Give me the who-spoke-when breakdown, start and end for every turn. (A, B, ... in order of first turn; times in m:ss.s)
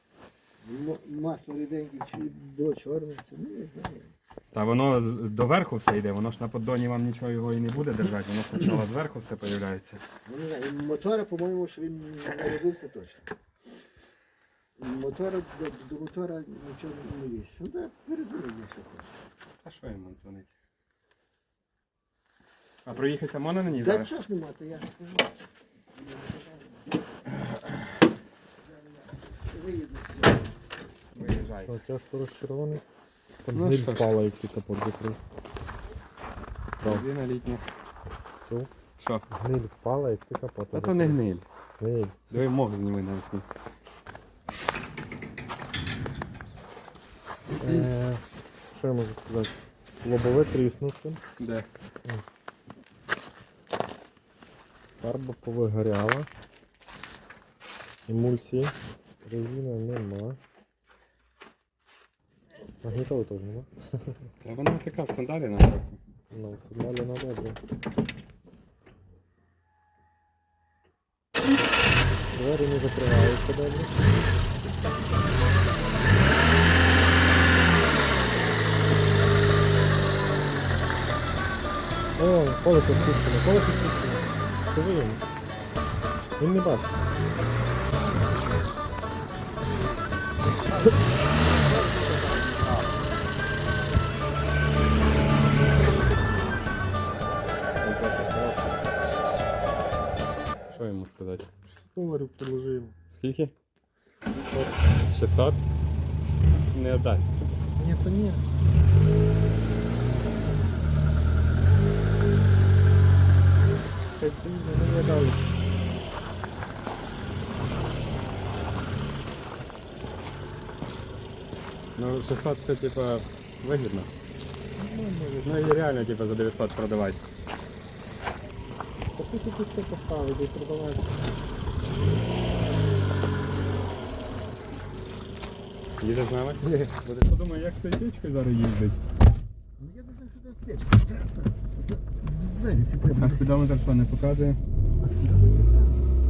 0:00.6-0:04.1 A
0:04.5-0:10.0 B
0:10.2-0:13.2 A
0:14.8-0:19.1 A
0:19.6-0:20.5 B
0:22.8-0:24.1 B
0:23.7-0:25.4 A
0:26.0-0:26.8 A
0:28.6-0:30.5 A
0:31.1-0:31.8 B
0:31.6-0:32.8 C
0:33.4-0:35.2 C
0:33.5-0:34.1 B
0:36.8-0:37.0 C
0:36.8-0:37.6 B
0:39.0-0:39.2 B
0:39.3-0:41.2 C
0:40.7-0:41.4 B
0:41.8-0:42.3 C
0:42.3-0:43.4 B
0:47.6-0:48.2 C
0:47.6-0:47.9 B
0:48.7-0:51.2 C
0:51.4-0:51.6 B
0:55.0-0:56.3 C
0:58.1-1:00.4 C
1:02.8-1:04.1 C
1:04.4-1:06.0 B
1:06.3-1:07.6 C
1:12.3-1:14.2 C
1:22.2-1:25.2 C
1:26.4-1:27.1 C
1:31.6-1:32.9 B
1:37.8-1:38.8 B
1:40.7-1:41.5 B
1:41.6-1:43.0 C
1:43.1-1:43.5 B
1:44.3-1:44.9 C
1:45.1-1:45.6 B
1:46.7-1:47.7 B
1:47.8-1:48.4 C
1:54.2-1:55.4 C
2:02.0-2:04.1 B
2:04.8-2:05.9 C
2:05.4-2:07.2 B
2:09.1-2:11.2 C
2:16.0-2:19.0 B
2:19.8-2:23.6 A
2:23.1-2:24.6 B
2:25.0-2:26.1 A